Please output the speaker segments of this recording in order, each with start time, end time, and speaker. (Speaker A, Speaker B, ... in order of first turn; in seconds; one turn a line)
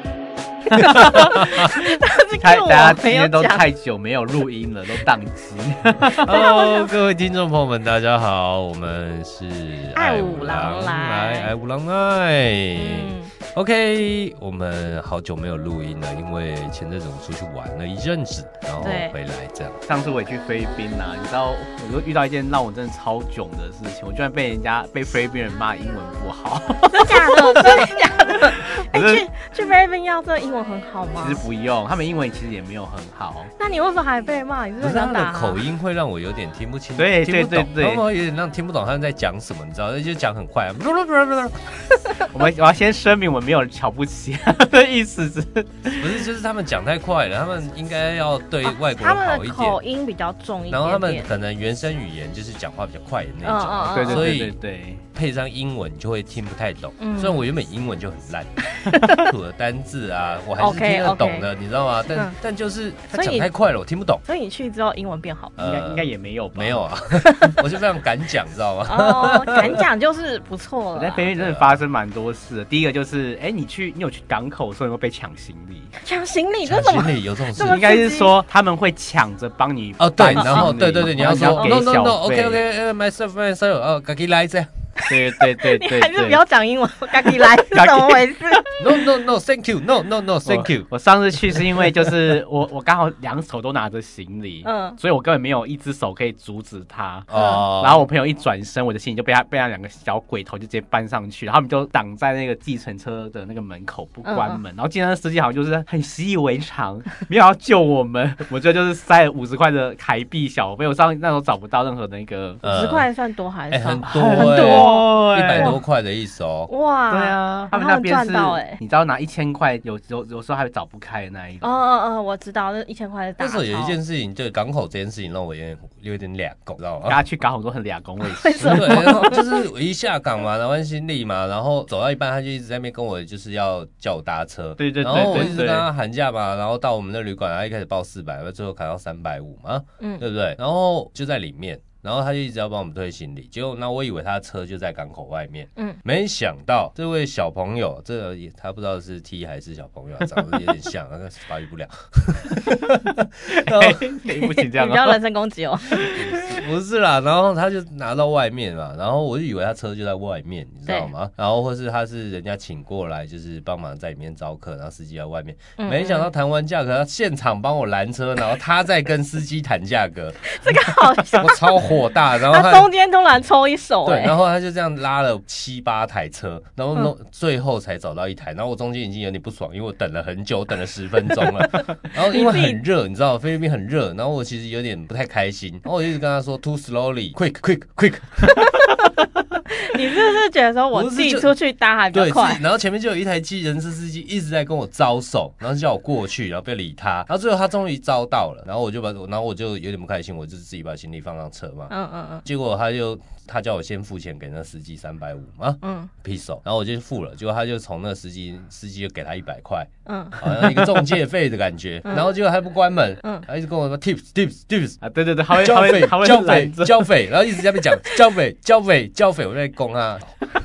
Speaker A: 0.7-3.6
Speaker B: 0.8-1.4
Speaker B: 2.4-6.2
Speaker C: 6.2-19.8
Speaker A: 6.3-6.9
Speaker A: 9.9-11.5
Speaker A: 12.7-13.3
Speaker A: 18.8-19.1
Speaker B: 19.9-27.9
Speaker A: 26.9-31.4
Speaker B: 28.6-29.2
Speaker B: 31.2-33.5
Speaker A: 33.6-35.6
Speaker C: 34.8-41.6
Speaker B: 37.0-38.0
Speaker B: 42.3-46.2
Speaker C: 46.0-49.8
Speaker A: 48.6-51.3
Speaker C: 50.7-54.6
Speaker A: 53.4-54.3
Speaker B: 53.9-55.0
Speaker C: 55.1-64.2
Speaker A: 57.0-57.4
Speaker A: 58.8-59.3
Speaker A: 60.6-61.5
Speaker A: 63.1-63.5
Speaker A: 64.2-65.5
Speaker C: 65.6-69.8
Speaker B: 65.6-66.8
Speaker A: 68.9-71.3
Speaker B: 70.9-75.9
Speaker C: 71.3-71.8
Speaker A: 76.0-78.3
Speaker C: 76.6-77.8
Speaker B: 77.6-82.6
Speaker C: 80.0-84.7
Speaker A: 80.3-80.7
Speaker A: 81.4-81.7
Speaker A: 85.0-88.6
Speaker B: 85.1-86.4
Speaker B: 87.2-88.6
Speaker C: 88.8-90.9
Speaker B: 90.4-112.6
Speaker C: 91.5-91.9
Speaker A: 94.6-95.0
Speaker C: 97.3-98.0
Speaker A: 97.3-97.6
Speaker A: 104.2-104.6
Speaker C: 112.6-113.1
Speaker A: 112.6-115.8
Speaker C: 113.7-116.7
Speaker B: 114.0-115.8
Speaker A: 116.7-118.8
Speaker B: 117.1-121.8
Speaker A: 121.6-124.0
Speaker C: 123.4-127.2
Speaker B: 127.1-129.1
Speaker A: 128.2-129.6
Speaker C: 128.6-154.2
Speaker B: 134.8-135.9
Speaker A: 135.1-135.5
Speaker A: 140.0-140.2
Speaker B: 153.5-155.2
Speaker A: 154.4-156.6
Speaker C: 156.2-170.8
Speaker A: 165.8-166.3
Speaker A: 170.4-171.8
Speaker C: 171.3-172.9
Speaker A: 172.4-174.4
Speaker C: 174.0-188.7
Speaker A: 182.3-182.8
Speaker A: 189.8-192.6
Speaker C: 190.9-191.5
Speaker C: 192.1-201.9
Speaker A: 201.9-202.4
Speaker C: 202.4-215.0
Speaker A: 205.8-206.1
Speaker A: 210.0-210.4
Speaker A: 212.0-212.3
Speaker B: 215.0-217.1
Speaker C: 215.5-220.5